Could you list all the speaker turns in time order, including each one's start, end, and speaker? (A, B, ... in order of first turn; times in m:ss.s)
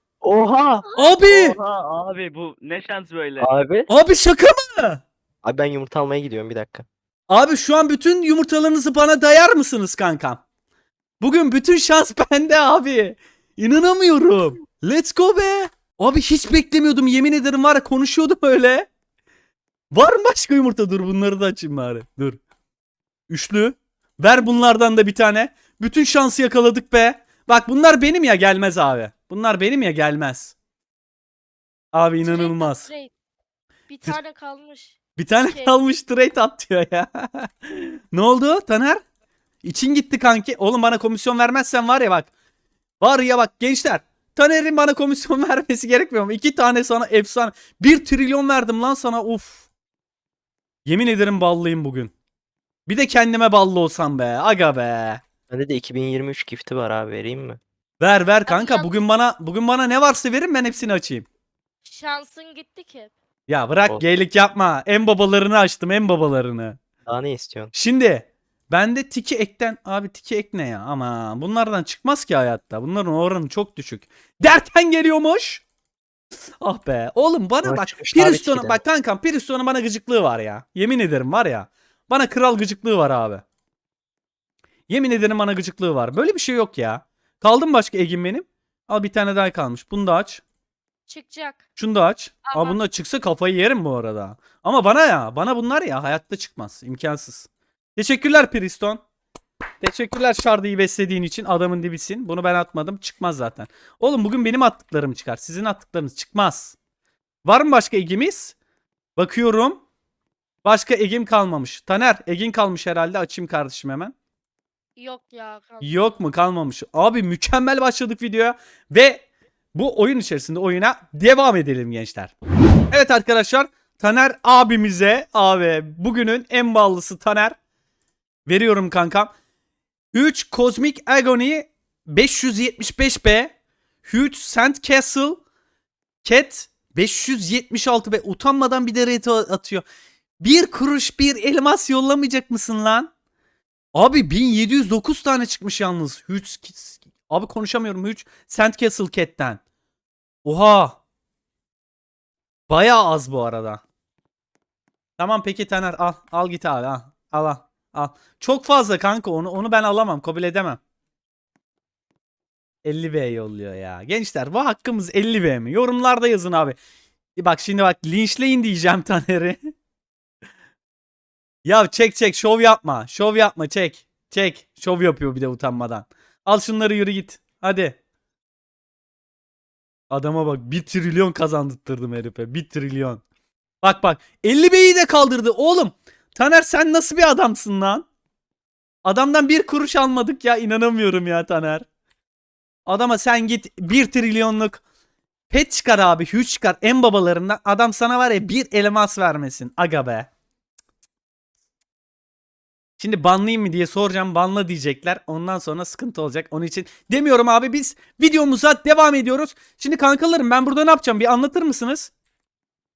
0:00.2-0:00.9 A
0:00.9-0:01.6 B
0:01.2-0:03.5 C
0:03.4-0:03.9 A
0:03.9-0:05.0 B
0:05.4-0:06.9 A
0:07.3-0:10.4 B
0:11.2-0:18.9 B
0:19.9-0:22.4 B
0:23.3-0:30.6 B
0:31.9-0:32.9 B
0:32.2-0:33.1 D
0:33.9-0:35.8 D
0:35.2-0:39.0 B
0:39.6-0:42.3 B
0:43.0-0:49.6 B
0:50.9-0:52.1 B
0:52.9-0:55.2 B
0:55.5-0:57.6 A
0:58.0-1:01.3 B
0:58.5-0:59.1 D
1:01.8-1:03.1 D
1:03.5-1:06.8 B
1:07.1-1:07.7 A
1:07.7-1:15.6 B
1:16.6-1:23.4 B
1:17.6-1:18.8 A
1:24.9-1:30.4 B
1:31.1-1:31.6 D
1:31.8-1:39.0 B
1:32.4-1:32.8 D
1:39.8-1:46.8 B
1:47.4-1:48.6 B
1:49.2-1:49.8 B
1:50.6-1:54.1 B
1:55.0-1:56.2 D
1:55.8-2:02.3 B
2:02.9-2:07.6 B
2:08.5-2:09.3 B
2:10.1-2:13.5 B
2:14.0-2:15.4 B
2:16.2-2:19.8 B
2:20.4-2:23.1 B
2:24.0-2:29.6 B
2:30.4-2:31.0 B
2:32.7-2:33.8 B
2:35.2-2:40.8 B
2:42.8-2:46.8 B
2:47.4-2:49.6 B
2:51.6-2:58.0 B
3:00.1-3:03.2 B
3:03.8-3:08.0 B
3:09.0-3:11.9 B
3:12.9-3:14.8 B
3:15.5-3:20.3 B
3:23.0-3:32.1 B